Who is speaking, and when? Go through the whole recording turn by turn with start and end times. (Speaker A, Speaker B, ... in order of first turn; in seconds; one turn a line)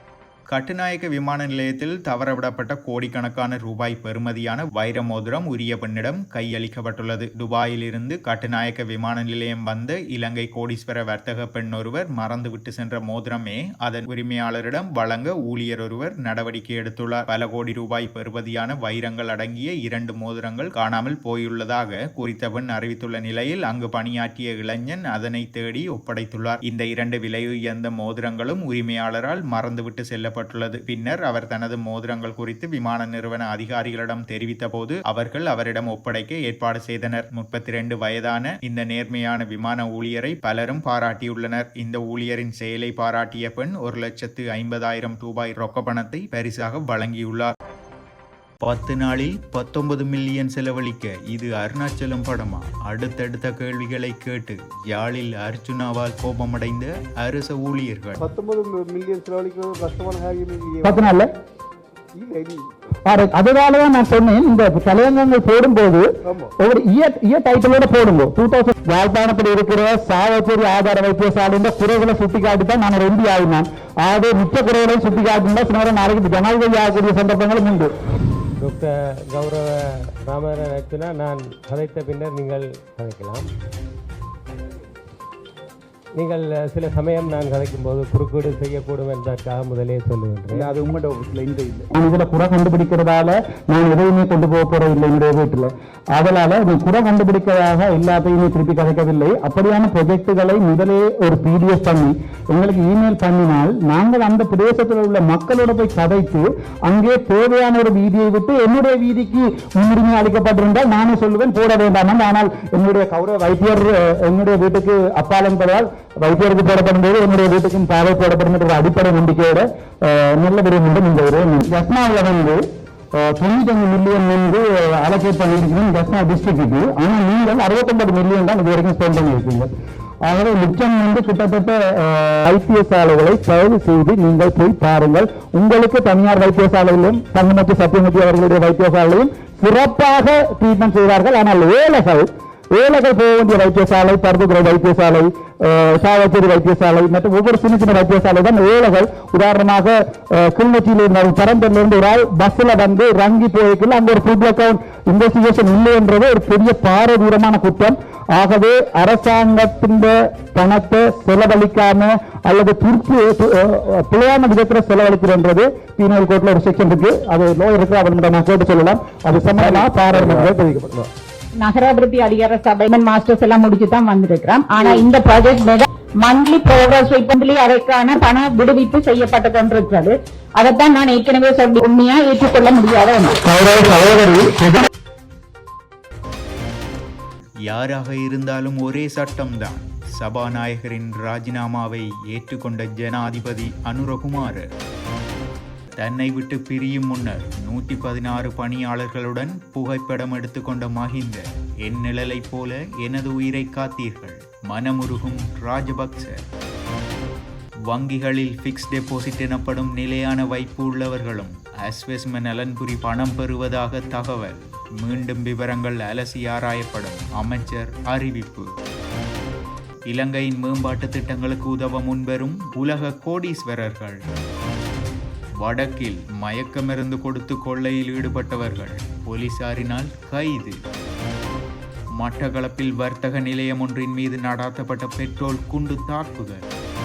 Speaker A: 0.5-47.5
Speaker A: 48.6-58.2
Speaker B: 58.2-61.0
Speaker C: 60.8-61.3
Speaker B: 62.1-62.7
Speaker C: 63.1-66.1
Speaker B: 66.2-66.5
Speaker C: 66.6-77.9
Speaker D: 78.6-79.7
Speaker D: 80.2-83.5
Speaker D: 86.2-90.7
Speaker B: 90.5-91.8
Speaker C: 91.9-122.6
Speaker C: 123.1-129.7
Speaker C: 130.2-171.1
Speaker E: 171.6-183.4
Speaker C: 183.4-184.8
Speaker A: 187.7-194.6
Speaker A: 196.0-206.4
Speaker A: 207.9-218.7
Speaker A: 220.1-224.2
Speaker A: 225.6-230.8
Speaker A: 232.2-236.6